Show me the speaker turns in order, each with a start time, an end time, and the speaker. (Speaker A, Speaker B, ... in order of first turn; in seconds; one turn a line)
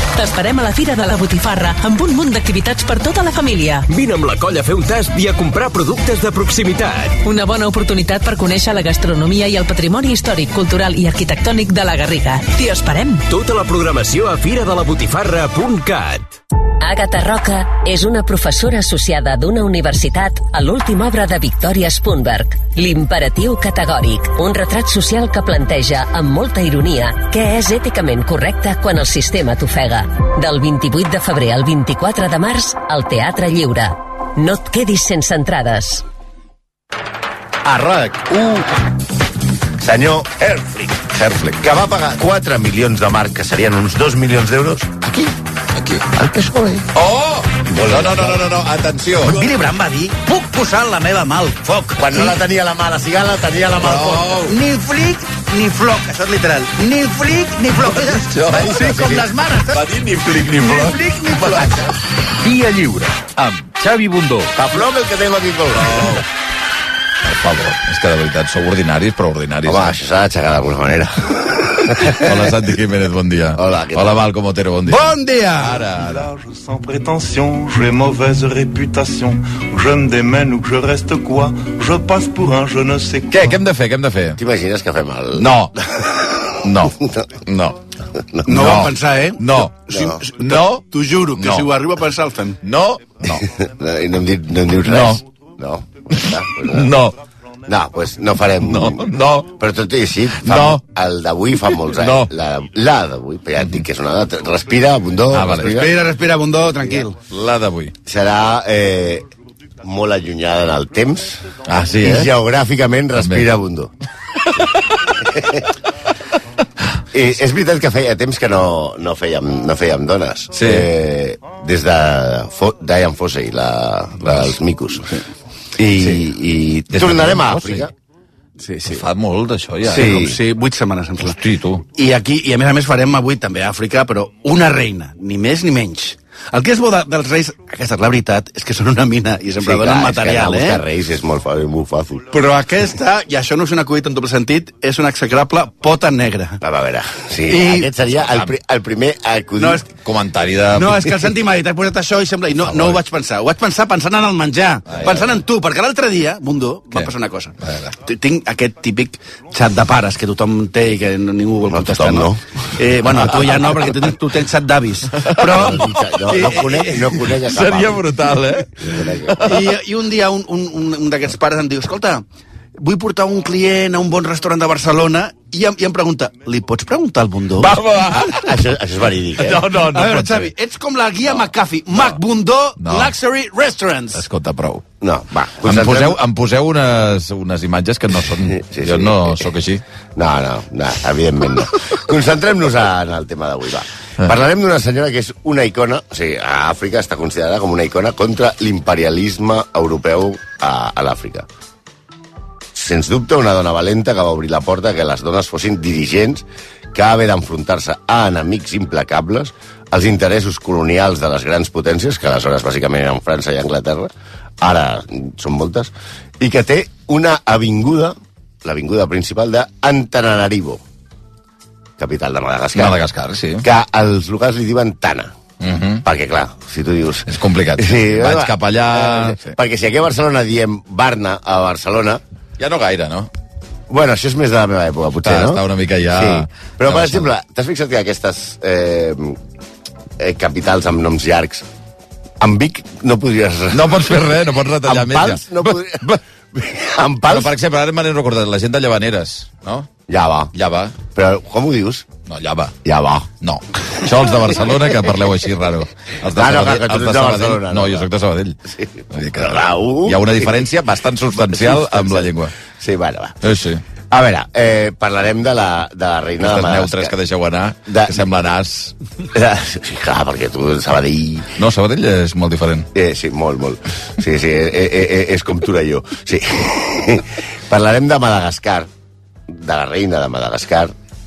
Speaker A: 0.1-3.9
Speaker B: 3.9-7.1
Speaker A: 7.2-13.2
Speaker B: 13.3-16.3
Speaker C: 16.8-36.0
Speaker D: 37.6-38.6
Speaker D: 39.8-45.3
Speaker E: 41.2-41.7
Speaker E: 45.8-46.0
Speaker D: 46.1-46.9
Speaker E: 46.9-49.4
Speaker D: 47.6-48.4
Speaker F: 49.2-52.4
Speaker D: 52.0-54.3
Speaker E: 53.8-54.5
Speaker F: 54.5-59.8
Speaker E: 57.8-61.8
Speaker F: 60.5-61.8
Speaker G: 62.4-64.5
Speaker D: 64.5-66.2
Speaker E: 65.7-66.2
Speaker E: 67.3-70.0
Speaker D: 69.7-72.5
Speaker E: 72.2-76.3
Speaker D: 73.5-74.1
Speaker F: 74.9-75.8
Speaker H: 76.2-83.5
Speaker E: 83.3-84.4
Speaker D: 84.4-85.5
Speaker E: 85.4-85.7
Speaker D: 86.0-87.2
Speaker E: 86.6-87.0
Speaker E: 87.5-87.8
Speaker D: 88.2-88.7
Speaker E: 88.5-91.7
Speaker F: 88.5-92.6
Speaker D: 89.9-90.3
Speaker E: 92.6-93.4
Speaker D: 93.3-96.9
Speaker E: 94.9-95.2
Speaker E: 96.7-97.2
Speaker D: 97.7-105.9
Speaker E: 98.6-99.5
Speaker E: 100.4-100.8
Speaker E: 101.9-102.3
Speaker E: 105.3-105.8
Speaker F: 105.6-107.2
Speaker E: 107.3-107.9
Speaker D: 108.0-109.2
Speaker D: 109.8-113.9
Speaker E: 111.6-112.3
Speaker E: 113.1-113.5
Speaker D: 115.3-115.6
Speaker D: 117.1-125.1
Speaker E: 120.5-120.9
Speaker E: 124.2-124.5
Speaker D: 125.8-127.9
Speaker E: 126.0-126.2
Speaker E: 126.9-127.8
Speaker F: 128.6-129.0
Speaker E: 128.9-130.3
Speaker F: 129.9-131.4
Speaker E: 131.2-131.9
Speaker F: 131.9-140.8
Speaker D: 139.6-142.3
Speaker F: 142.3-146.6
Speaker D: 146.6-149.8
Speaker F: 147.5-147.9
Speaker E: 148.1-148.5
Speaker E: 150.0-151.1
Speaker F: 150.8-165.8
Speaker E: 152.6-153.0
Speaker E: 154.9-155.4
Speaker E: 156.9-157.9
Speaker D: 161.7-162.4
Speaker E: 165.2-166.6
Speaker D: 165.4-168.0
Speaker F: 166.3-166.9
Speaker E: 167.3-169.7
Speaker D: 168.8-169.4
Speaker F: 169.4-172.2
Speaker F: 172.8-177.7
Speaker E: 177.6-178.5
Speaker D: 178.4-179.6
Speaker E: 179.4-180.5
Speaker F: 179.7-184.2
Speaker E: 181.9-182.2
Speaker E: 182.8-183.1
Speaker E: 184.1-184.8
Speaker D: 185.0-186.2
Speaker E: 185.6-189.8
Speaker D: 188.4-189.5
Speaker D: 190.2-201.4
Speaker D: 202.7-214.1
Speaker D: 214.6-220.8
Speaker D: 222.0-222.9
Speaker E: 222.7-223.7
Speaker D: 223.6-225.3
Speaker E: 225.6-226.0
Speaker D: 226.1-232.2
Speaker E: 227.3-229.6
Speaker E: 232.6-233.3
Speaker D: 233.9-235.6
Speaker E: 235.2-237.3
Speaker D: 236.1-239.4
Speaker D: 240.2-241.6
Speaker D: 242.4-244.3
Speaker E: 243.7-245.8
Speaker D: 244.8-247.5
Speaker E: 247.3-249.9
Speaker D: 250.1-250.5
Speaker E: 250.5-251.0
Speaker D: 251.0-252.1
Speaker E: 252.3-252.7
Speaker D: 252.8-253.3
Speaker E: 253.4-258.6
Speaker D: 256.3-258.1
Speaker D: 258.7-260.6
Speaker E: 259.1-262.5
Speaker D: 261.5-263.3
Speaker E: 263.4-263.8
Speaker D: 264.1-267.1
Speaker E: 266.4-268.9
Speaker D: 267.9-268.2
Speaker D: 269.3-271.5
Speaker E: 271.6-272.9
Speaker D: 272.9-278.9
Speaker D: 279.5-280.9